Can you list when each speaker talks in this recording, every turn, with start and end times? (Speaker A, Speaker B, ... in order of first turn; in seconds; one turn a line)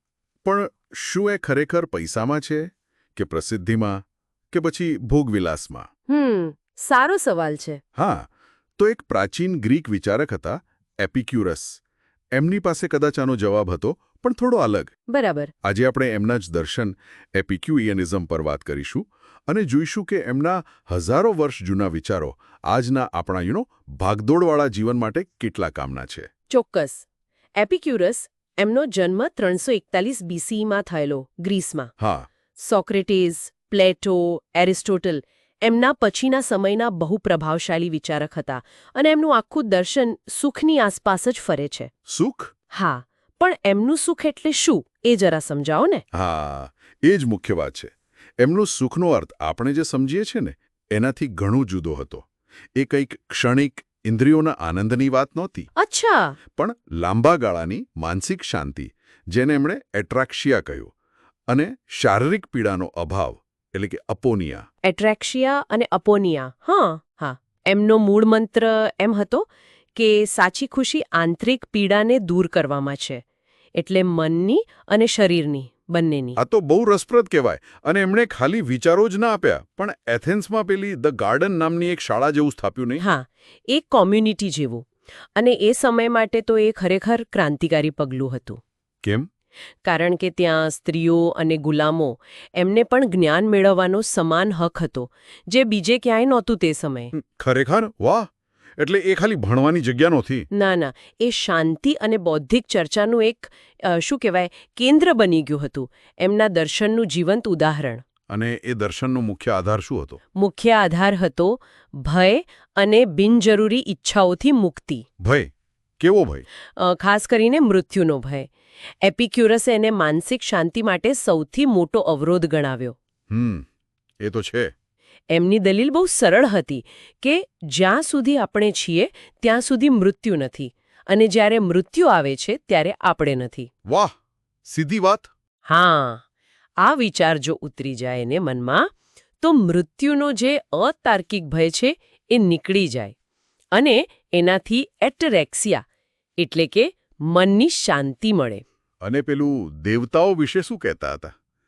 Speaker A: 0.4-4.0
Speaker A: 4.5-5.9
Speaker B: 6.1-7.8
Speaker A: 7.9-11.8
Speaker A: 12.3-14.9
Speaker B: 15.1-15.5
Speaker A: 15.6-26.3
Speaker B: 26.5-27.0
Speaker B: 27.6-31.9
Speaker A: 32.0-32.3
Speaker B: 32.6-41.9
Speaker A: 42.1-42.5
Speaker B: 42.7-46.0
Speaker A: 46.1-55.7
Speaker B: 55.8-56.4
Speaker A: 56.5-60.9
Speaker A: 61.5-64.6
Speaker B: 64.8-73.2
Speaker B: 73.8-76.4
Speaker A: 76.4-83.0
Speaker B: 83.0-88.6
Speaker A: 89.0-89.3
Speaker B: 89.8-97.1
Speaker A: 97.1-98.3
Speaker A: 98.8-100.5
Speaker B: 100.5-108.0
Speaker A: 108.3-110.2
Speaker B: 110.3-115.0
Speaker A: 115.2-116.5
Speaker B: 116.8-118.5
Speaker B: 119.0-123.0
Speaker A: 123.3-123.7
Speaker A: 124.2-124.7
Speaker B: 125.3-133.7
Speaker A: 133.8-134.1
Speaker A: 134.7-135.3
Speaker B: 135.7-136.2
Speaker B: 136.8-143.1
Speaker B: 143.7-145.8
Speaker B: 146.4-148.6
Speaker A: 149.0-151.3